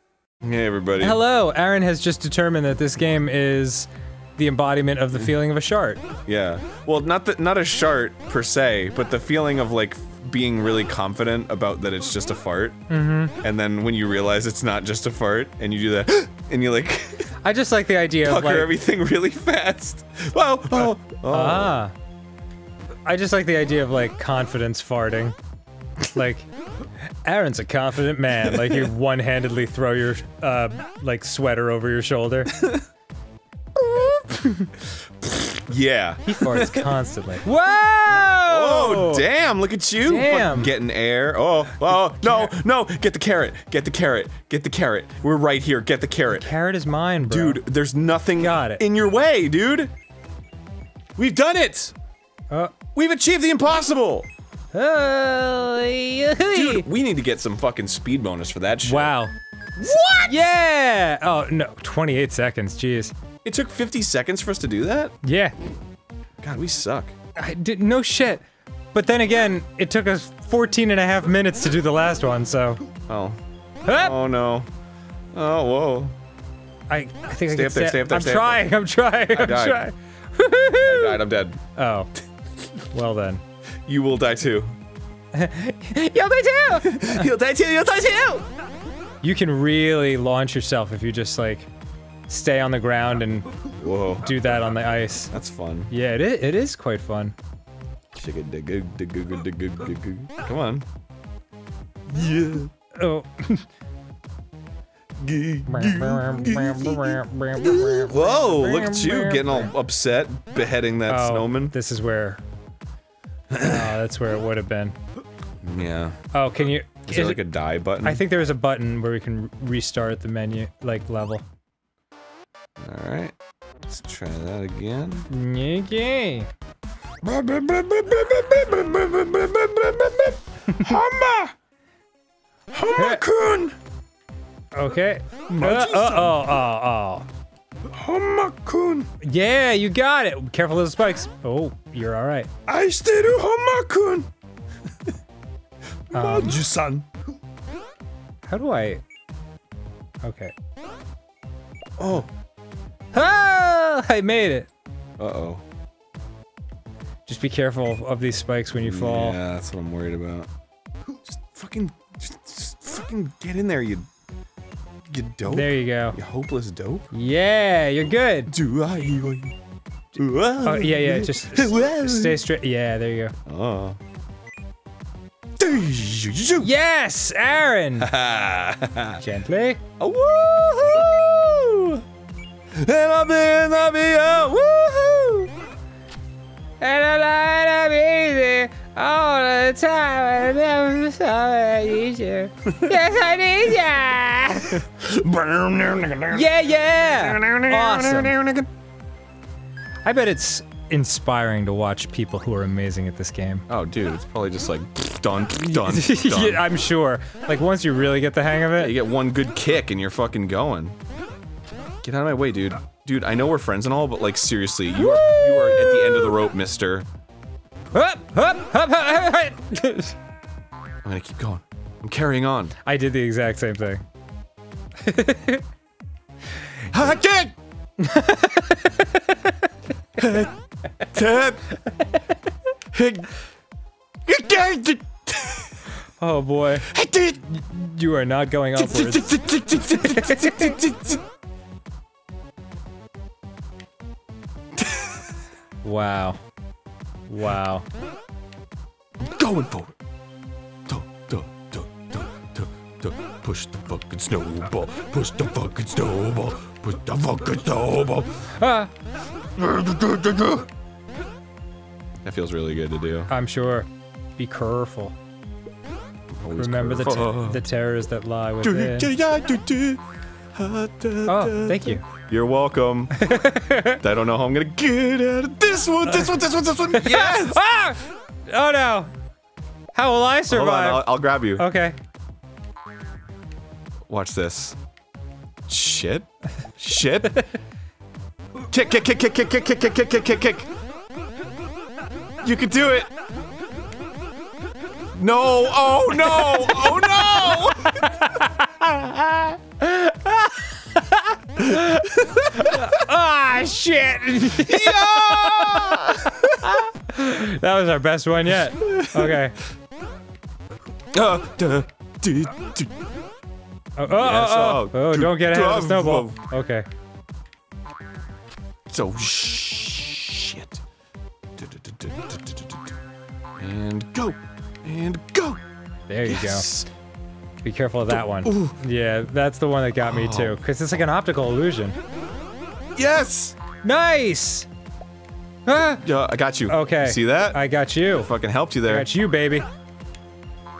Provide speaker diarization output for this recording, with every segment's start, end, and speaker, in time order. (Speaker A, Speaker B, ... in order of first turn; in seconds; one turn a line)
Speaker A: 0.4-1.2
Speaker B: 1.0-6.0
Speaker A: 6.3-12.8
Speaker B: 12.9-13.4
Speaker A: 13.4-17.3
Speaker B: 17.4-18.7
Speaker A: 18.2-21.8
Speaker B: 20.7-21.9
Speaker B: 23.1-25.4
Speaker B: 26.1-26.5
Speaker B: 27.2-32.6
Speaker A: 28.4-28.9
Speaker A: 32.5-32.8
Speaker B: 33.8-34.7
Speaker A: 35.2-36.9
Speaker B: 36.2-39.2
Speaker A: 38.5-46.5
Speaker B: 40.0-40.7
Speaker B: 42.2-42.5
Speaker B: 46.3-47.6
Speaker A: 47.3-49.9
Speaker B: 48.4-48.8
Speaker A: 51.2-51.9
Speaker A: 53.0-54.3
Speaker B: 54.7-56.9
Speaker A: 56.5-59.1
Speaker B: 58.8-59.3
Speaker A: 59.8-60.4
Speaker B: 60.2-63.1
Speaker A: 63.4-65.1
Speaker B: 65.2-65.5
Speaker A: 66.4-67.1
Speaker B: 67.4-72.8
Speaker A: 73.1-74.7
Speaker B: 73.8-74.2
Speaker A: 75.3-76.1
Speaker B: 76.9-81.2
Speaker A: 77.5-78.7
Speaker A: 79.3-79.8
Speaker A: 80.8-81.6
Speaker B: 81.8-82.1
Speaker B: 82.9-83.4
Speaker A: 83.9-84.7
Speaker B: 85.3-87.3
Speaker A: 86.8-88.5
Speaker B: 89.2-91.7
Speaker B: 92.3-93.5
Speaker A: 93.8-94.4
Speaker B: 94.2-95.3
Speaker A: 95.3-95.9
Speaker B: 95.9-97.3
Speaker A: 98.1-100.8
Speaker A: 102.1-102.7
Speaker B: 103.0-103.7
Speaker A: 105.2-111.8
Speaker B: 105.7-109.7
Speaker B: 111.1-112.4
Speaker A: 113.5-114.0
Speaker B: 113.6-115.0
Speaker A: 115.6-116.2
Speaker B: 116.3-117.4
Speaker A: 117.1-118.2
Speaker B: 118.0-121.4
Speaker A: 122.8-123.3
Speaker A: 123.9-125.3
Speaker B: 125.3-126.5
Speaker A: 127.2-131.5
Speaker A: 132.7-133.8
Speaker B: 132.9-133.2
Speaker B: 134.7-137.3
Speaker A: 135.5-136.5
Speaker A: 137.9-139.1
Speaker B: 139.2-142.5
Speaker A: 142.7-144.3
Speaker A: 146.1-147.1
Speaker B: 146.1-146.6
Speaker B: 148.5-149.0
Speaker B: 150.2-150.5
Speaker A: 152.0-152.3
Speaker B: 153.1-154.7
Speaker A: 155.2-155.6
Speaker B: 157.3-159.4
Speaker A: 158.8-160.5
Speaker A: 161.2-164.1
Speaker A: 165.1-167.1
Speaker B: 165.4-166.2
Speaker B: 167.1-168.5
Speaker A: 168.5-169.6
Speaker A: 170.2-172.4
Speaker B: 170.6-173.3
Speaker A: 173.5-174.0
Speaker A: 175.6-176.7
Speaker B: 176.6-178.1
Speaker A: 178.0-179.2
Speaker B: 179.2-179.8
Speaker A: 180.0-182.0
Speaker A: 182.8-185.5
Speaker B: 186.8-194.8
Speaker A: 194.7-198.7
Speaker B: 196.3-198.4
Speaker B: 200.1-203.7
Speaker A: 203.7-206.7
Speaker B: 205.6-209.0
Speaker A: 208.8-211.0
Speaker A: 212.0-217.1
Speaker B: 215.0-216.4
Speaker B: 217.9-220.2
Speaker A: 221.0-222.8
Speaker B: 222.8-224.0
Speaker B: 225.0-225.6
Speaker A: 226.9-227.5
Speaker B: 228.0-229.6
Speaker A: 230.2-231.8
Speaker A: 232.9-233.3
Speaker A: 234.3-235.7
Speaker B: 236.2-236.9
Speaker A: 236.9-237.4
Speaker B: 237.4-240.8
Speaker A: 238.8-241.2
Speaker A: 244.8-245.2
Speaker B: 245.8-246.4
Speaker B: 247.3-247.8
Speaker A: 249.2-249.9
Speaker A: 250.9-258.5
Speaker B: 258.6-258.9
Speaker A: 259.6-260.7
Speaker A: 262.2-263.3
Speaker B: 263.3-265.1
Speaker A: 266.4-267.6
Speaker B: 266.5-269.1
Speaker A: 268.6-270.0
Speaker A: 270.6-273.4
Speaker B: 271.3-272.0
Speaker B: 273.1-274.0
Speaker A: 274.0-277.6
Speaker B: 276.1-279.1
Speaker B: 279.9-282.0
Speaker A: 280.5-281.6
Speaker A: 284.1-284.8
Speaker A: 285.7-287.4
Speaker A: 288.7-290.7
Speaker A: 292.4-293.1
Speaker A: 295.1-298.3
Speaker B: 296.2-299.1
Speaker A: 299.2-299.6
Speaker B: 299.8-309.6
Speaker A: 301.6-302.9
Speaker A: 304.5-306.6
Speaker A: 308.8-309.4
Speaker A: 311.1-312.9
Speaker B: 314.0-316.9
Speaker A: 314.1-316.4
Speaker A: 318.9-320.8
Speaker A: 321.6-322.9
Speaker A: 323.6-325.6
Speaker B: 326.1-326.7
Speaker A: 326.3-326.9
Speaker B: 327.6-331.9
Speaker A: 328.1-328.8
Speaker A: 330.0-330.6
Speaker A: 333.0-333.6
Speaker B: 333.8-334.7
Speaker B: 335.7-336.0
Speaker A: 336.0-337.6
Speaker B: 336.7-338.3
Speaker A: 338.1-339.1
Speaker B: 338.9-339.6